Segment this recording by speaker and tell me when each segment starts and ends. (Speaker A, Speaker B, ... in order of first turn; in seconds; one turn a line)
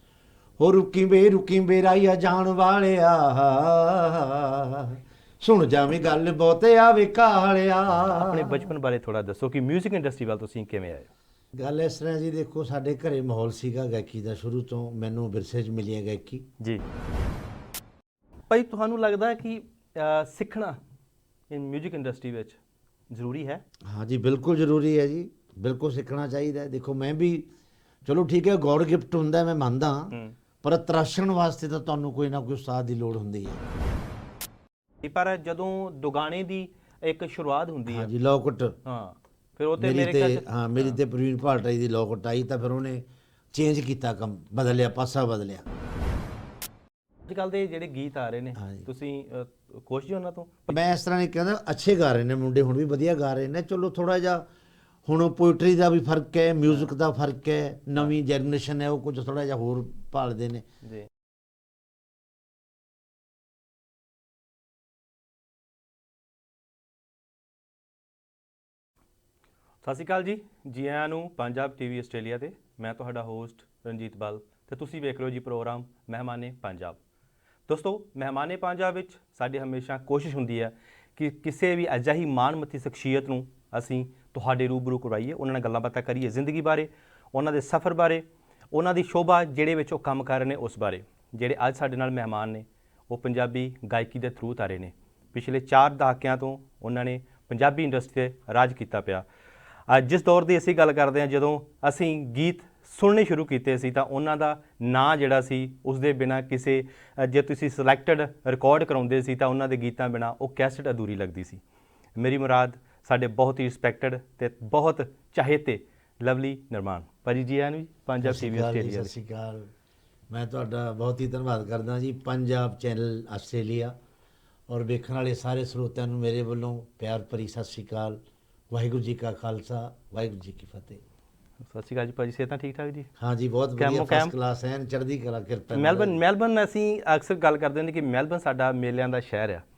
Speaker A: 0.6-8.6
Speaker B: 8.1-11.1
Speaker A: 11.6-16.4
Speaker B: 18.5-20.8
Speaker B: 21.5-22.6
Speaker B: 23.1-23.6
Speaker A: 23.9-27.5
Speaker A: 28.0-33.6
Speaker B: 35.0-38.1
Speaker A: 37.9-38.8
Speaker B: 38.9-41.0
Speaker A: 39.8-45.6
Speaker B: 47.3-50.8
Speaker A: 48.6-48.9
Speaker A: 50.7-54.5
Speaker A: 55.0-60.6
Speaker B: 60.8-61.1
Speaker B: 69.8-77.0
Speaker B: 77.7-99.2
Speaker B: 99.9-111.6
Speaker B: 112.2-119.1
Speaker A: 118.2-119.7
Speaker A: 120.3-124.0
Speaker A: 124.7-131.0
Speaker B: 131.6-133.1
Speaker A: 133.2-136.2
Speaker B: 133.8-134.3
Speaker B: 135.7-139.6